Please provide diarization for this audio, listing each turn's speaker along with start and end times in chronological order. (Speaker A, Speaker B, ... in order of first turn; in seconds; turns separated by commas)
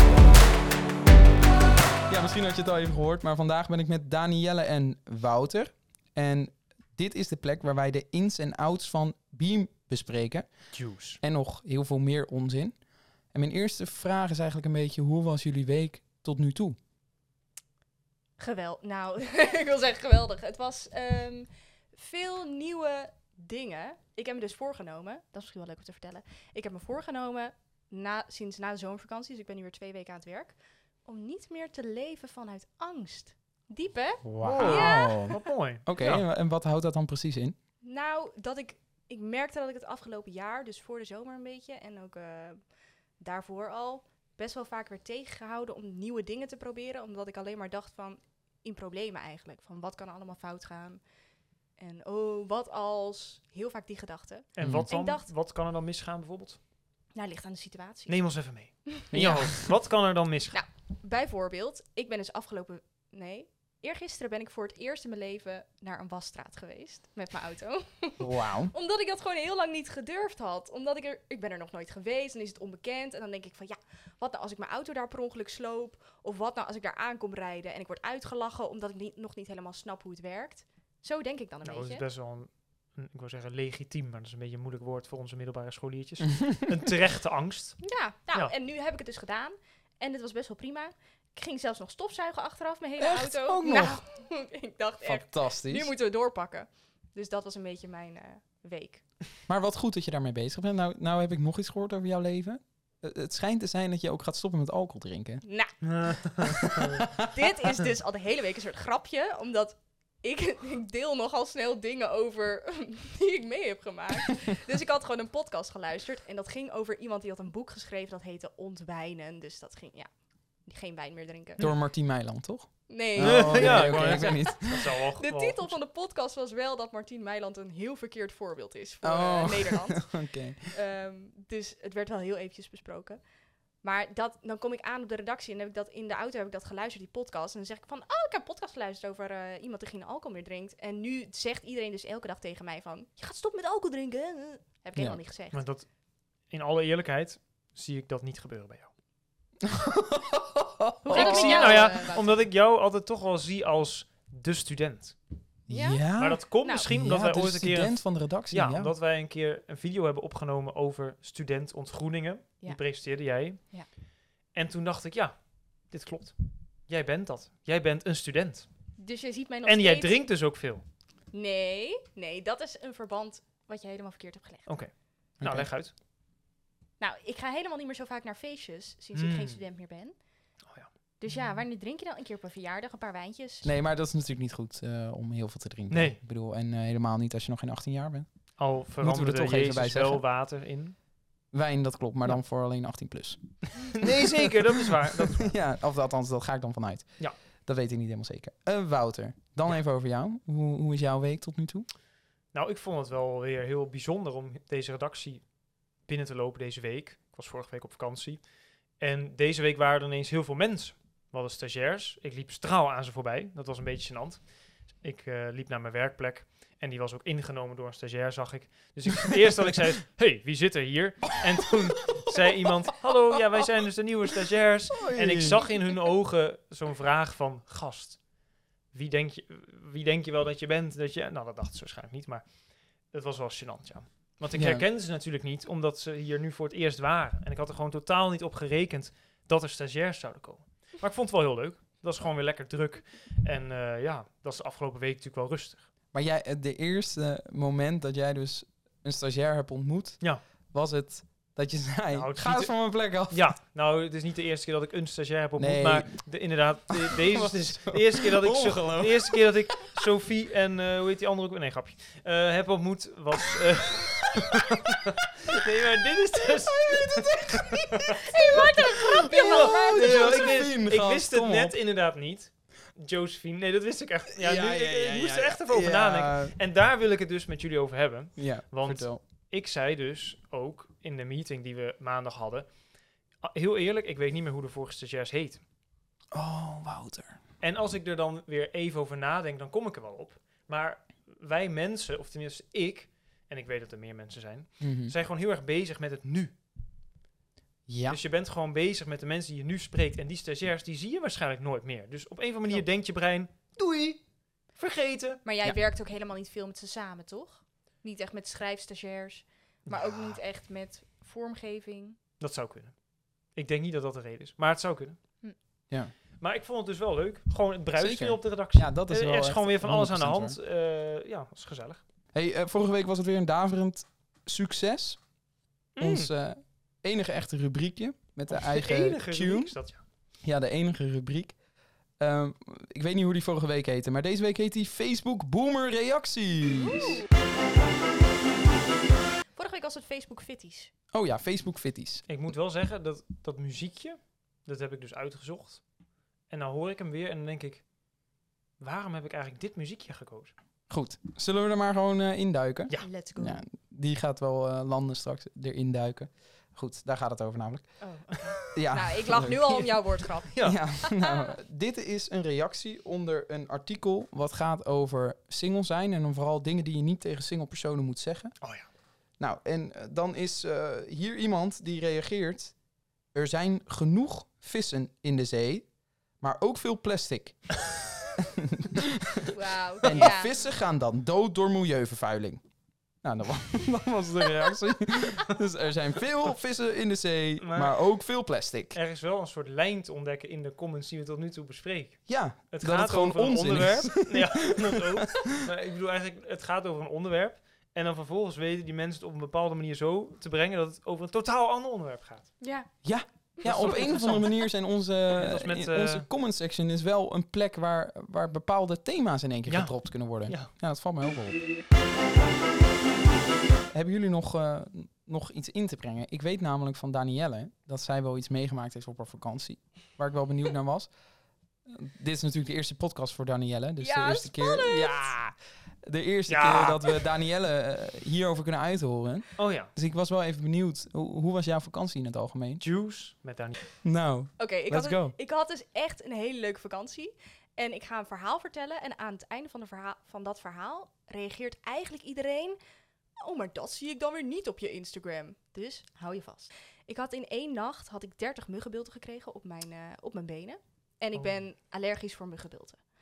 Speaker A: 2.1-10.7, Speaker B: 10.7-11.2, Speaker A: 11.2-12.8, Speaker A: 13.3-16.8, Speaker C: 18.4-35.3, Speaker A: 34.2-37.5, Speaker B: 34.4-36.2, Speaker C: 37.8-42.6, Speaker C: 43.2-51.0, Speaker C: 51.8-55.3, Speaker B: 54.5-56.6, Speaker A: 54.6-54.9, Speaker C: 57.1-58.3, Speaker B: 58.1-60.6, Speaker C: 58.9-59.2, Speaker A: 59.1-59.7, Speaker C: 60.5-82.0, Speaker A: 68.2-68.7, Speaker B: 81.6-88.5, Speaker C: 87.8-99.0, Speaker A: 93.0-94.0, Speaker A: 95.0-95.9, Speaker A: 99.5-105.4, Speaker C: 105.4-106.1, Speaker B: 105.8-107.1, Speaker A: 106.4-107.2, Speaker C: 107.2-120.1, Speaker C: 120.6-121.7, Speaker A: 121.6-124.9, Speaker C: 122.9-133.2, Speaker B: 123.2-125.8, Speaker A: 129.0-130.6, Speaker C: 133.8-145.6, Speaker B: 145.5-145.9, Speaker B: 146.5-148.9, Speaker A: 149.6-151.9, Speaker C: 151.0-152.3, Speaker B: 151.1-155.2, Speaker A: 155.7-158.9, Speaker C: 155.7-156.9, Speaker B: 156.1-163.8, Speaker B: 164.5-166.3, Speaker B: 166.9-168.7, Speaker C: 168.9-170.2, Speaker B: 169.6-170.8, Speaker C: 171.3-174.8, Speaker B: 174.7-175.9, Speaker A: 175.4-175.7, Speaker C: 177.0-180.1, Speaker B: 179.1-179.6, Speaker C: 181.2-183.7, Speaker A: 183.6-190.2, Speaker B: 185.9-186.2, Speaker B: 188.6-190.9, Speaker A: 191.5-194.4, Speaker B: 193.9-195.6, Speaker A: 195.1-201.9, Speaker B: 202.5-205.4, Speaker B: 206.0-228.3, Speaker A: 224.9-225.7, Speaker B: 228.9-245.9, Speaker A: 234.5-234.8, Speaker A: 246.1-253.4, Speaker B: 252.1-282.8, Speaker A: 255.6-256.3, Speaker A: 256.9-259.9, Speaker A: 266.7-271.8, Speaker C: 268.2-270.7, Speaker A: 274.4-276.5, Speaker A: 278.4-279.2, Speaker B: 283.4-285.6, Speaker A: 286.3-287.4, Speaker B: 287.6-296.6, Speaker A: 294.8-295.1, Speaker A: 297.9-298.2, Speaker B: 298.1-305.4, Speaker C: 305.4-312.2, Speaker B: 309.8-310.4, Speaker B: 312.4-313.0, Speaker B: 313.5-315.2, Speaker B: 316.4-322.0, Speaker A: 317.9-320.6, Speaker A: 322.3-325.3, Speaker B: 325.9-326.3, Speaker A: 326.0-329.8, Speaker B: 328.5-330.0, Speaker A: 330.4-331.6, Speaker A: 332.2-337.2, Speaker C: 336.7-337.2, Speaker C: 339.5-340.9, Speaker A: 341.1-342.2, Speaker B: 342.3-345.8, Speaker B: 346.5-347.8, Speaker B: 348.8-350.5, Speaker A: 350.9-358.0, Speaker C: 353.0-353.6, Speaker C: 358.0-361.5, Speaker B: 358.3-358.6, Speaker A: 358.7-359.9, Speaker B: 360.5-360.8, Speaker A: 360.6-368.6, Speaker B: 368.6-368.9, Speaker A: 369.4-372.8, Speaker A: 373.3-375.9, Speaker A: 376.4-377.8, Speaker A: 378.4-382.6, Speaker C: 379.5-380.5, Speaker A: 383.2-389.0, Speaker B: 387.6-388.1, Speaker B: 388.9-402.6, Speaker A: 392.3-395.5, Speaker C: 402.6-402.9, Speaker A: 403.0-411.6, Speaker C: 403.6-404.5, Speaker B: 403.6-404.5, Speaker B: 405.3-406.3, Speaker B: 409.7-410.7, Speaker A: 413.9-421.1, Speaker A: 421.9-432.8, Speaker C: 424.0-425.4, Speaker B: 426.5-427.0, Speaker B: 429.6-429.9, Speaker B: 432.8-433.8, Speaker A: 434.0-435.3, Speaker C: 434.6-442.8, Speaker C: 443.4-453.0, Speaker B: 451.3-451.6